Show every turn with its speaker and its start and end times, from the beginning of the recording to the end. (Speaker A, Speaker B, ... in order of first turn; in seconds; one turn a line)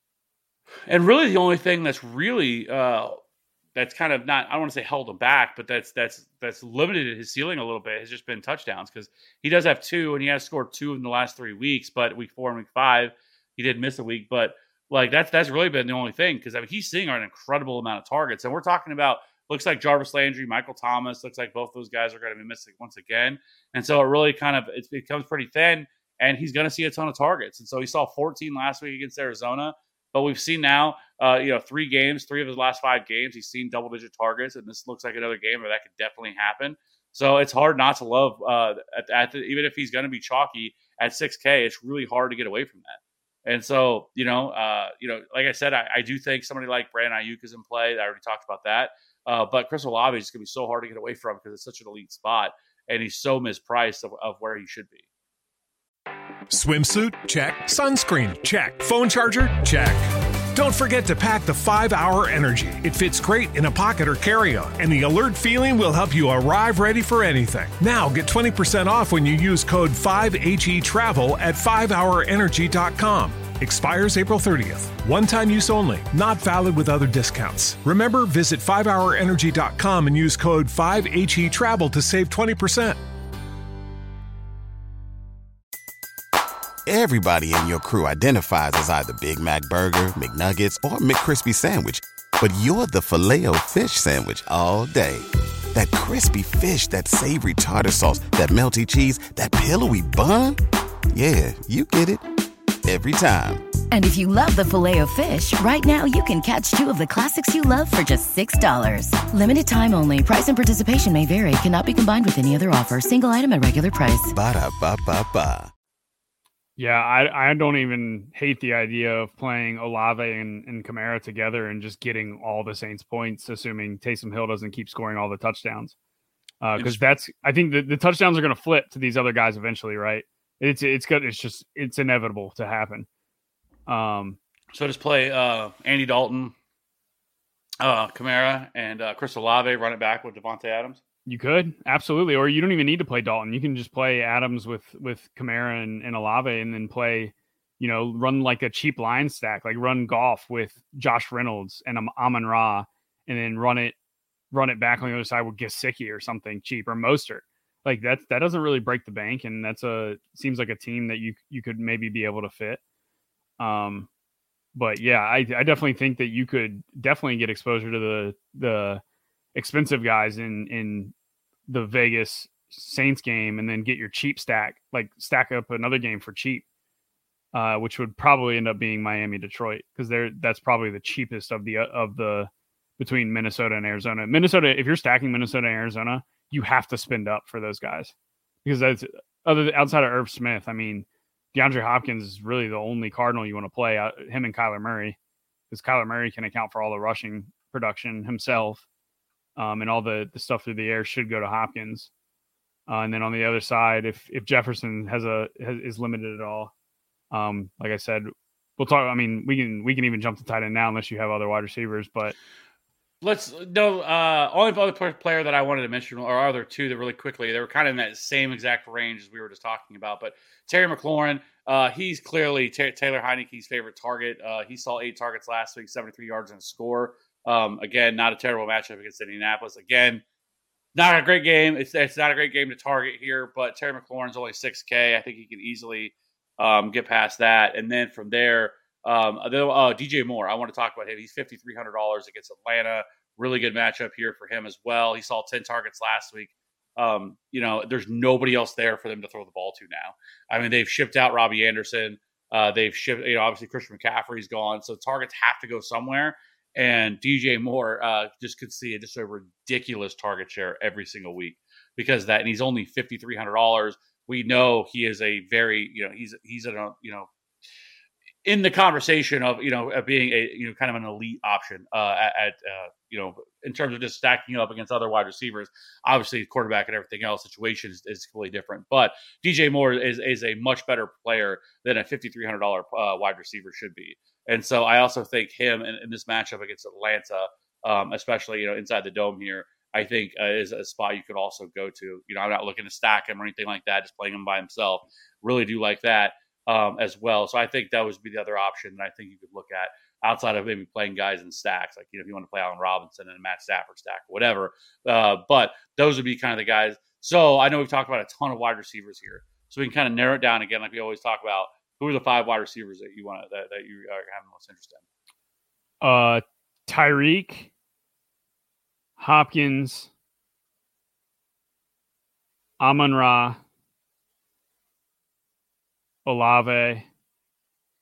Speaker A: 0.9-3.2
Speaker A: 3.8-55.1
Speaker B: 56.5-83.0
Speaker C: 86.9-100.6
Speaker C: 101.1-102.2
Speaker C: 102.8-103.6
Speaker D: 103.9-114.3
Speaker C: 114.3-115.7
Speaker E: 116.8-125.9
Speaker E: 126.6-133.1
Speaker A: 126.8-127.0
Speaker E: 133.9-134.4
Speaker A: 134.7-136.6
Speaker A: 137.8-141.0
Speaker E: 141.3-153.9
Speaker E: 154.5-162.8
Speaker E: 163.6-164.1
Speaker E: 164.8-169.0
Speaker E: 169.6-171.1
Speaker E: 171.7-176.6
Speaker E: 177.5-188.1
Speaker E: 188.7-195.2
Speaker E: 195.7-198.8
Speaker E: 199.6-202.1
Speaker E: 202.9-206.7
Speaker E: 207.3-212.3
Speaker A: 213.2-230.2
Speaker A: 230.9-267.3
Speaker A: 268.4-315.0
Speaker E: 316.0-317.7
Speaker E: 319.2-320.1
Speaker E: 322.8-323.6
Speaker E: 326.2-327.1